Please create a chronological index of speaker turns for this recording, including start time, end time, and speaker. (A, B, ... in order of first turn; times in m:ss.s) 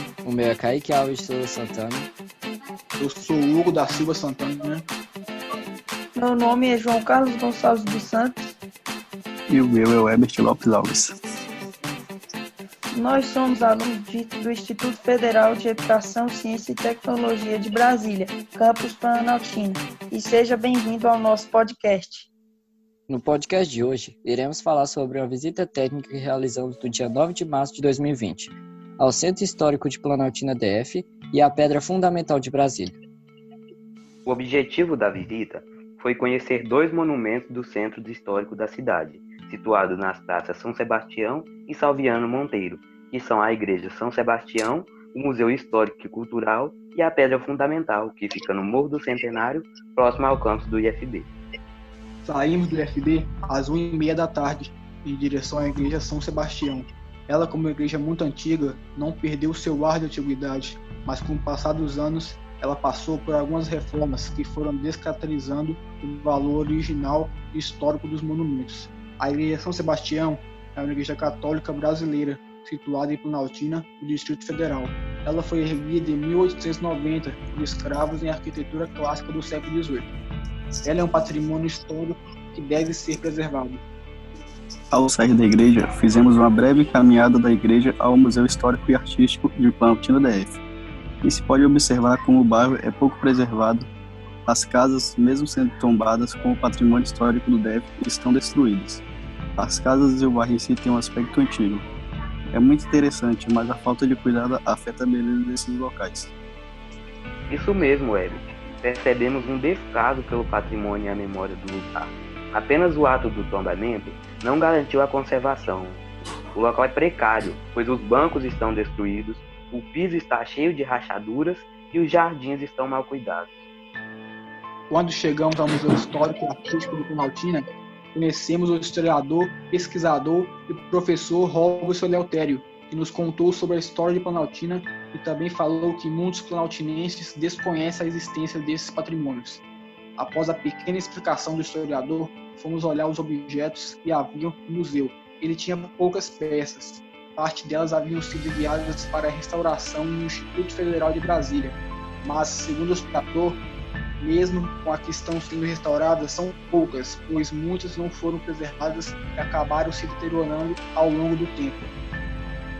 0:00.2-0:02.1 A
0:03.0-0:04.8 B
0:06.2-0:08.6 C
0:09.5-0:11.2 D
0:12.9-0:22.3 C
0:23.1-0:33.0 A
0:34.3-0:51.3 E
0:52.2-1:20.1 B
1:20.8-1:23.8 B
1:24.9-1:30.6 D
1:31.2-1:33.9 D
1:34.5-1:39.0 D
1:39.6-1:41.8 D
1:42.5-1:46.3 D
1:47.5-2:03.6 E
2:04.9-2:19.6 B
2:20.2-2:33.6 B
2:34.2-2:41.9 B